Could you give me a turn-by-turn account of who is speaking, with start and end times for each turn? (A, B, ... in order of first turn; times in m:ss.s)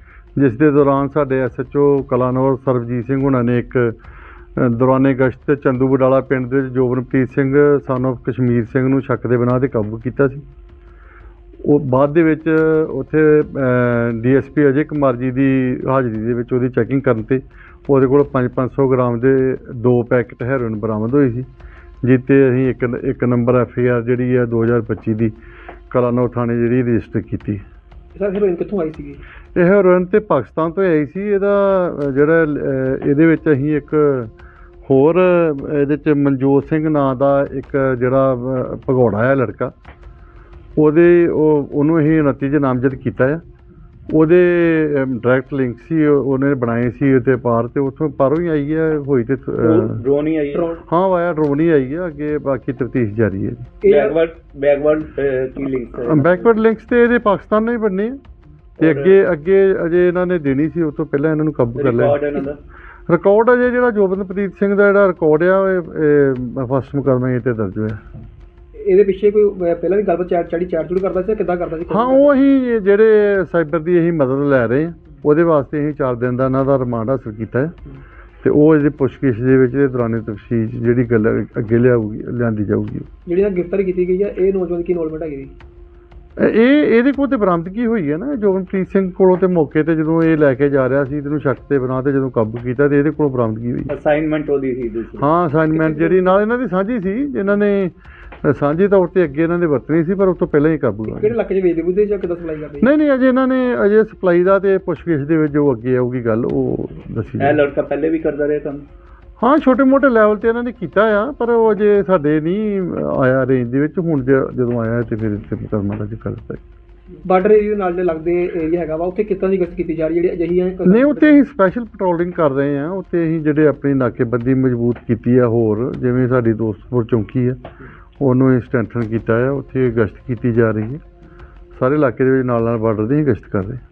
0:00.4-0:04.0 A
0:04.6-0:10.4 A
0:11.6-0:21.5 A
0:22.0-0:25.3 A
0:25.9-0:27.6 A
0:28.1-0:29.2 B
0:29.5-0:34.3 A
0:34.8-0:39.7 A
0:40.8-0:43.4 A
0:44.1-0:50.0 A
0:49.6-0:50.7 C
0:50.5-0:50.8 B
0:50.8-0:53.7 A
0:53.8-0:54.2 B
0:53.8-0:56.5 C
0:56.0-0:58.2 A
0:58.8-0:59.2 C
0:58.8-1:02.3 A
1:01.8-1:02.6 C
1:03.1-1:08.0 A
1:08.8-1:12.4 B
1:11.9-1:17.8 A
1:18.4-1:23.1 A
1:23.2-1:25.5 B
1:26.4-1:33.9 A
1:33.9-1:35.3 C
1:35.2-1:41.4 A
1:35.7-1:36.4 B
1:41.1-1:42.9 B
1:42.8-1:47.6 A
1:47.4-1:48.8 C
1:49.4-1:56.6 A
1:57.2-2:01.4 B
2:00.8-2:07.6 A
2:08.2-2:11.0 A
2:11.7-2:13.8 A